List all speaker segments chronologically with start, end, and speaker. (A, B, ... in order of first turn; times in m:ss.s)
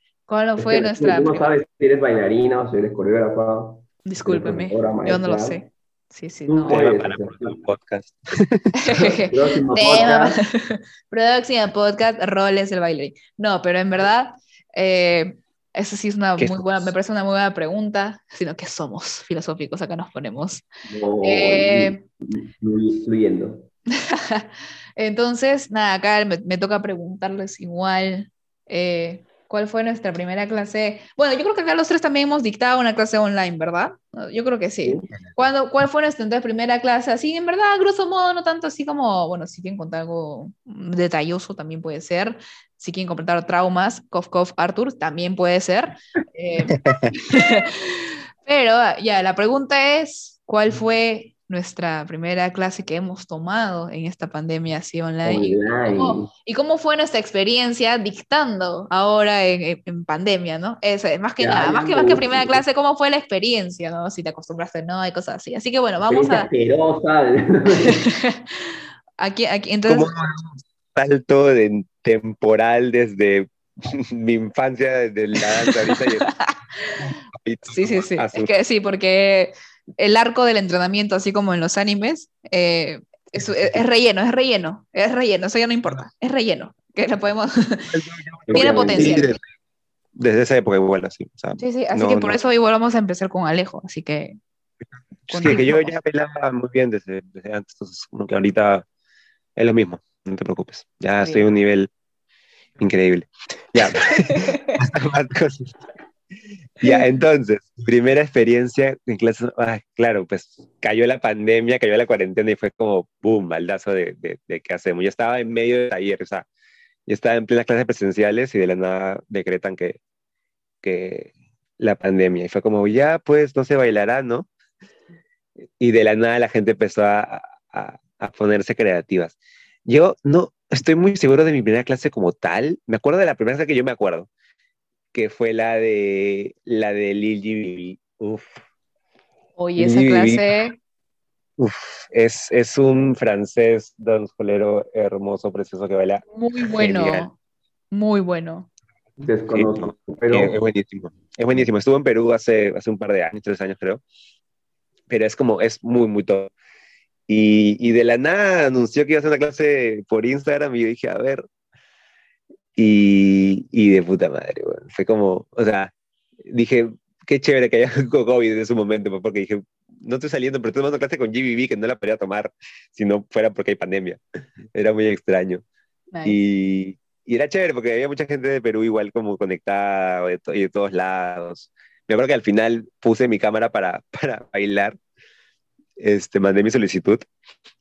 0:00.3-0:01.5 A
0:00.6-0:05.6 B
0:04.0-0:06.8 A
0:06.5-0:07.6 B
0:06.7-0:08.7 C
0:08.8-0:20.7 A
0:08.9-0:10.4 B
0:16.4-0:16.9 C
0:20.9-0:23.7 B
0:21.2-0:22.0 A
0:24.0-1:06.5 A
0:46.7-0:47.1 C
0:55.2-0:56.3 B
1:01.4-1:02.6 B
1:06.1-1:08.1 B
1:07.8-1:08.5 A
1:09.2-1:10.1 A
1:09.9-1:16.3 C
1:15.4-1:17.0 A
1:17.0-1:18.5 C
1:17.7-1:27.9 A
1:27.9-1:29.4 C
1:28.5-1:29.3 B
1:28.5-1:29.4 A
1:30.2-1:32.4 C
1:31.6-1:34.4 A
1:35.3-1:35.9 A
1:35.3-1:38.8 C
1:39.6-1:41.9 C
1:41.2-1:41.5 A
1:42.8-1:45.8 C
1:44.3-1:44.8 A
1:46.8-1:56.5 C
1:57.1-2:00.0 C
2:00.8-2:04.5 C
2:05.8-2:14.3 C
2:15.1-2:18.6 C
2:19.6-2:20.8 A
2:19.8-2:20.5 C
2:21.6-2:26.2 C
2:26.3-2:27.4 A
2:26.8-2:27.3 C
2:27.9-2:28.7 A
2:29.2-2:30.5 B
2:29.5-2:34.0 C
2:35.1-2:36.5 C
2:37.3-2:41.4 C
2:42.8-2:45.9 C
2:46.4-2:54.2 C
2:54.7-2:55.6 C
2:56.1-2:56.4 A
2:56.2-3:05.0 C
3:06.0-3:07.3 C